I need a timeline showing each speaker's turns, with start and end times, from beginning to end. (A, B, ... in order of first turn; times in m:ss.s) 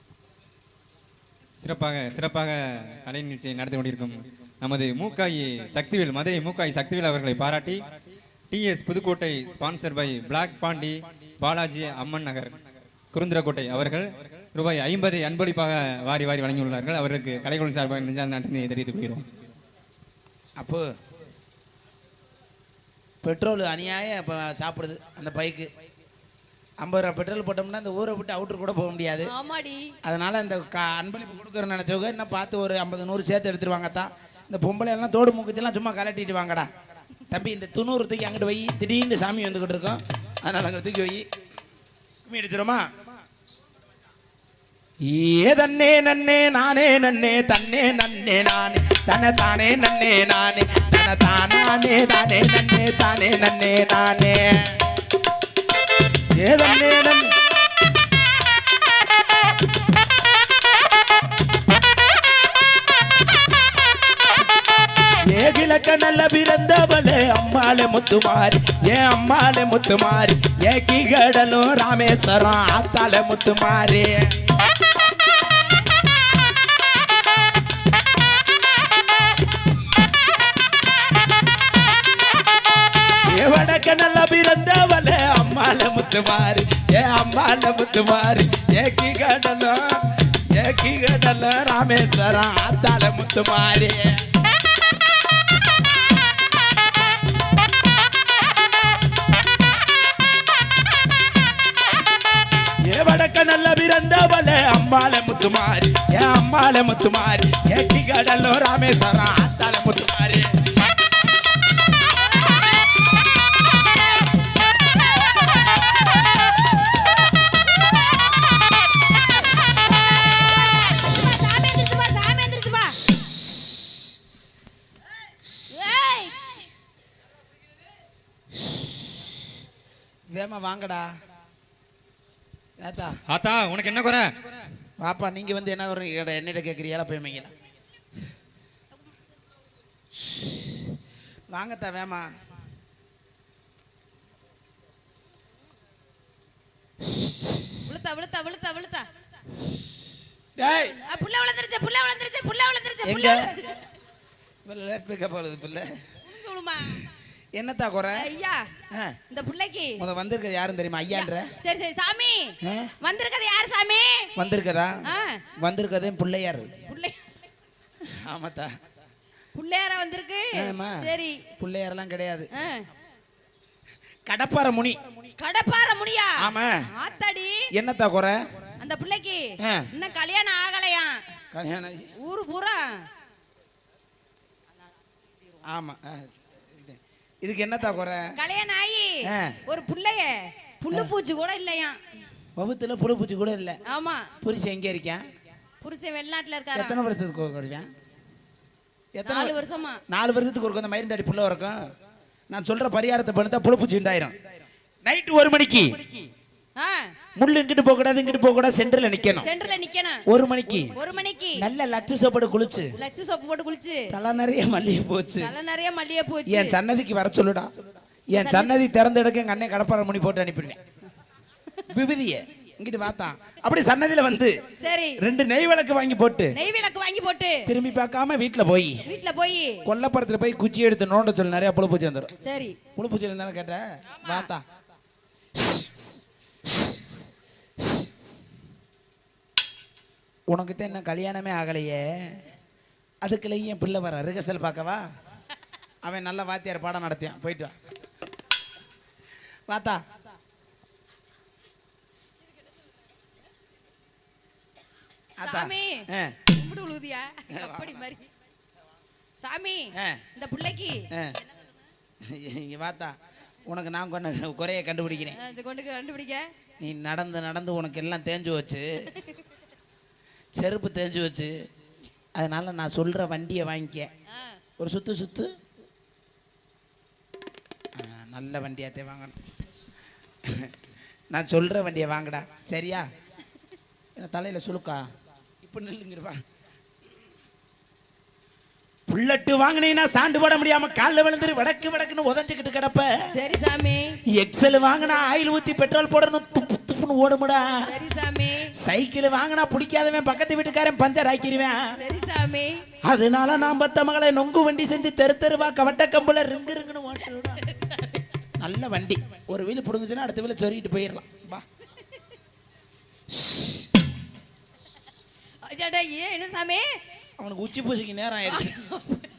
0:01.6-0:07.8 A
0:08.5-0:12.6 A
0:13.1-0:19.2 A
0:20.6-0:20.9 B
0:23.2-0:25.7 B
0:26.8-0:29.3 B
0:29.3-0:29.9 C
0:30.0-0:36.7 B
0:37.3-0:41.2 B
0:42.3-0:42.9 B
0:45.0-0:54.7 B
0:56.3-0:57.3 B
1:05.3-1:14.3 B
1:23.3-1:34.2 B
1:42.8-1:50.5 B
1:59.6-2:03.0 C
2:05.7-2:06.7 C
2:10.3-2:11.1 B
2:12.8-2:13.2 B
2:13.1-2:14.6 A
2:15.0-2:17.5 B
2:21.5-2:22.3 B
2:27.8-2:29.1 C
2:30.6-2:31.0 B
2:31.0-2:33.8 C
2:33.0-2:33.5 B
2:34.7-2:35.9 B
2:36.2-2:37.1 C
2:37.6-2:38.3 B
2:38.2-2:38.7 C
2:38.9-2:39.2 B
2:39.3-2:40.0 C
2:40.0-2:41.5 B
2:41.1-2:44.3 C
2:42.6-2:42.9 B
2:44.4-2:45.0 B
2:45.0-2:45.4 C
2:45.6-2:46.7 B
2:46.9-2:47.4 C
2:48.1-2:48.7 B
2:49.6-2:51.4 C
2:50.5-2:51.1 B
2:51.6-2:52.5 B
2:52.6-2:52.9 C
2:54.3-2:55.0 B
2:55.4-2:57.6 C
2:56.4-2:56.9 B
2:57.7-2:58.4 B
2:58.8-3:01.3 C
2:59.6-2:59.9 B
3:01.5-3:02.1 B
3:02.2-3:03.1 C
3:05.7-3:08.3 B
3:08.4-3:12.0 C
3:09.2-3:09.6 B
3:12.6-3:13.8 B
3:13.9-3:14.3 C
3:14.4-3:15.2 B
3:15.8-3:17.0 C
3:16.8-3:17.9 B
3:19.2-3:19.6 B
3:19.2-3:20.0 C
3:20.1-3:21.8 B
3:22.5-3:24.4 B
3:25.0-3:26.2 B
3:26.8-3:27.1 C
3:27.4-3:29.5 B
3:29.4-3:30.2 C
3:30.3-3:31.0 B
3:31.0-3:31.6 C
3:31.6-3:33.0 B
3:33.0-3:34.1 C
3:34.1-3:35.5 B
3:35.4-3:36.8 C
3:36.5-3:37.7 B
3:38.3-3:40.8 B
3:38.4-3:38.8 C
3:41.9-3:44.6 B
3:44.8-3:45.2 C
3:45.2-3:46.6 B
3:46.6-3:47.6 C
3:47.7-3:49.0 B
3:49.1-3:49.8 C
3:49.8-3:52.3 B
3:52.4-3:52.8 C
3:53.0-3:54.6 B
3:54.2-3:54.5 C
3:55.6-3:55.9 B
3:57.8-3:58.1 B
4:00.5-4:02.4 B
4:03.2-4:05.0 B
4:06.0-4:07.7 B
4:09.7-4:10.0 B
4:15.4-4:16.4 B
4:15.4-4:18.3 C
4:17.5-4:18.0 B
4:19.4-4:21.1 C
4:20.0-4:20.2 B
4:21.1-4:21.4 B
4:22.2-4:23.1 B
4:23.7-4:25.4 B
4:25.4-4:26.5 C
4:26.8-4:29.1 B
4:30.6-4:31.6 B
4:32.4-4:34.1 B
4:34.3-4:34.6 C
4:34.8-4:35.5 B
4:38.0-4:39.4 B
4:40.4-4:40.7 B
4:41.3-4:43.1 B
4:44.2-4:45.1 B
4:45.6-4:46.4 B
4:49.1-4:53.1 B
4:53.3-4:54.2 C
4:54.3-4:57.9 B
4:57.9-4:58.7 C
4:58.8-5:01.8 B
5:02.0-5:02.8 C
5:03.1-5:07.6 B
5:07.6-5:08.2 C
5:08.6-5:11.6 B
5:15.6-5:16.9 C
5:17.4-5:18.8 B
5:18.5-5:19.3 C